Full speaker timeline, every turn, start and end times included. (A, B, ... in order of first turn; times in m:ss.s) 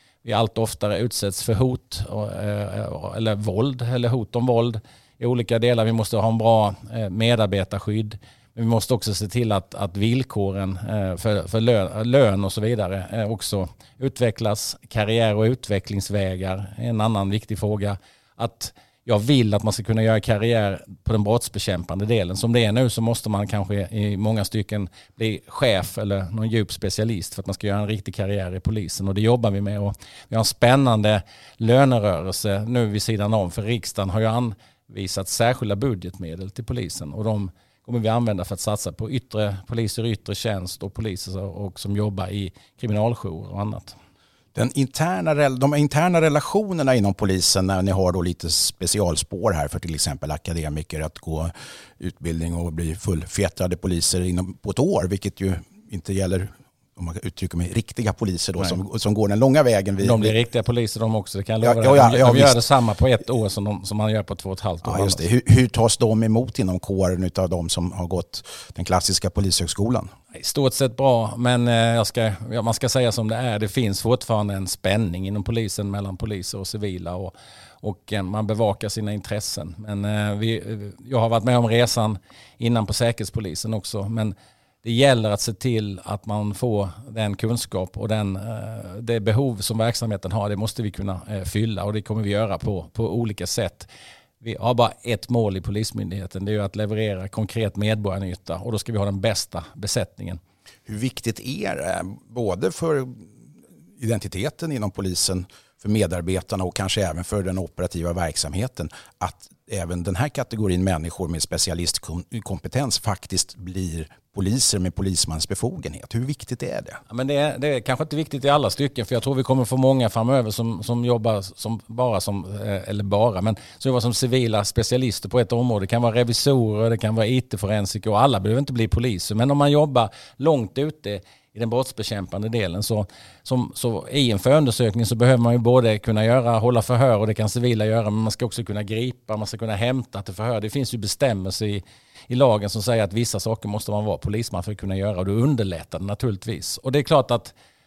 0:00.2-0:44.0 A
0:44.6-1:00.4 B
1:00.0-1:05.2 A
1:01.6-1:02.6 B
1:04.8-1:10.1 B
1:10.3-1:33.9 A
1:34.4-1:40.4 A
1:40.9-1:43.3 B
1:44.0-1:57.0 B
1:57.1-2:27.5 A